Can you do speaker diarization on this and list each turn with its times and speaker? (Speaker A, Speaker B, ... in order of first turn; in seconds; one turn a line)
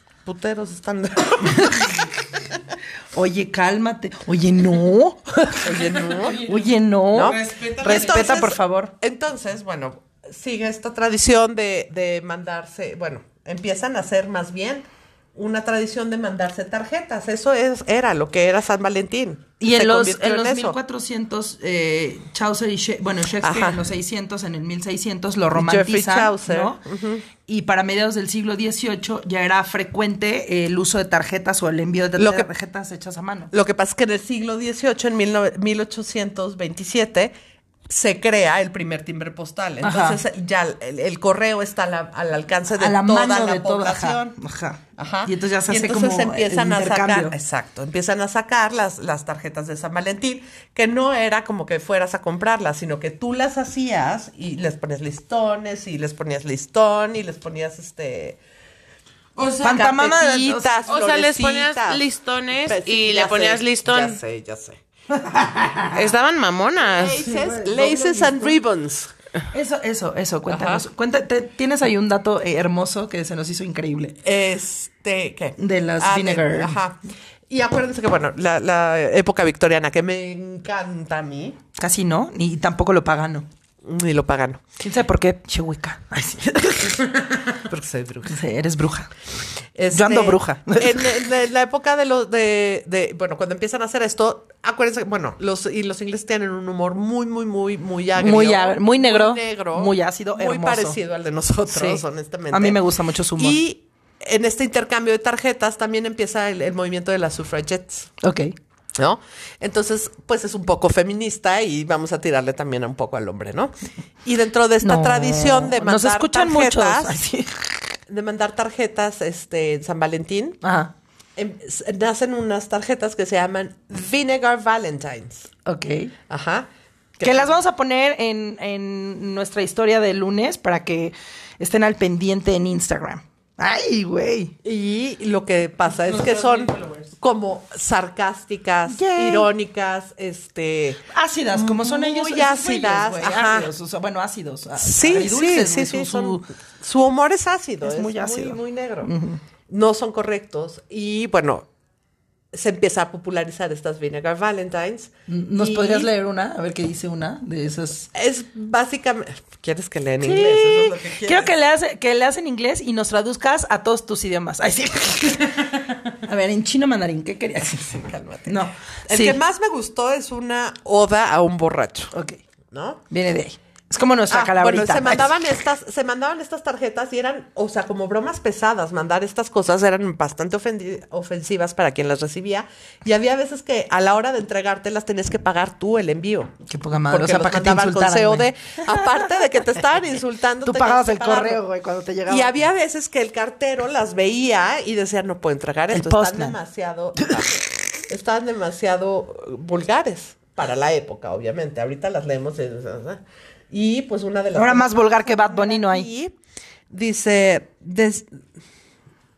Speaker A: 0.2-2.1
Speaker B: 1.6-1.9
Speaker B: 3.1-8.9
Speaker A: 5.6-6.4
Speaker C: 6.0-6.6
Speaker A: 7.1-20.8
Speaker C: 7.2-8.3
Speaker B: 19.6-26.8
Speaker A: 23.4-23.8
Speaker A: 25.5-27.2
Speaker B: 27.4-33.5
Speaker A: 32.2-32.5
Speaker A: 33.5-37.3
Speaker A: 37.9-44.4
Speaker B: 39.8-40.2
Speaker B: 42.8-47.3
Speaker A: 45.0-58.4
Speaker A: 59.4-62.0
Speaker C: 59.4-60.0
Speaker B: 59.6-60.7
Speaker C: 60.8-64.2
Speaker A: 62.6-64.8
Speaker B: 65.1-66.1
Speaker C: 65.9-67.2
Speaker A: 66.9-69.1
Speaker B: 67.2-68.6
Speaker B: 69.5-74.2
Speaker A: 70.5-70.8
Speaker A: 74.2-77.0
Speaker B: 75.6-76.8
Speaker A: 77.5-81.6
Speaker B: 81.8-83.5
Speaker A: 83.8-84.6
Speaker B: 84.8-87.1
Speaker A: 86.8-88.4
Speaker B: 88.2-89.1
Speaker A: 89.7-102.8
Speaker B: 89.9-91.2
Speaker B: 98.2-101.0
Speaker B: 101.7-103.6
Speaker A: 103.4-108.1
Speaker B: 108.2-108.5
Speaker A: 109.0-113.7
Speaker A: 114.2-117.2
Speaker B: 114.8-117.9
Speaker A: 118.1-120.6
Speaker B: 120.6-120.9
Speaker A: 121.3-125.5
Speaker B: 125.7-126.1
Speaker A: 126.3-127.5
Speaker B: 127.2-134.5
Speaker A: 134.6-143.7
Speaker C: 136.5-137.0
Speaker B: 138.9-139.5
Speaker B: 141.1-146.4
Speaker A: 144.8-149.1
Speaker B: 147.8-149.4
Speaker A: 149.7-151.7
Speaker A: 152.5-156.1
Speaker B: 155.3-158.1
Speaker A: 158.1-161.5
Speaker B: 160.2-169.4
Speaker A: 168.0-172.1
Speaker B: 172.1-172.4
Speaker A: 172.7-173.0
Speaker B: 173.1-175.3
Speaker A: 174.3-186.5
Speaker B: 186.7-189.2
Speaker A: 187.1-191.6
Speaker B: 190.6-192.7
Speaker A: 192.2-206.3
Speaker B: 195.9-196.6
Speaker B: 204.5-206.1
Speaker A: 206.9-208.4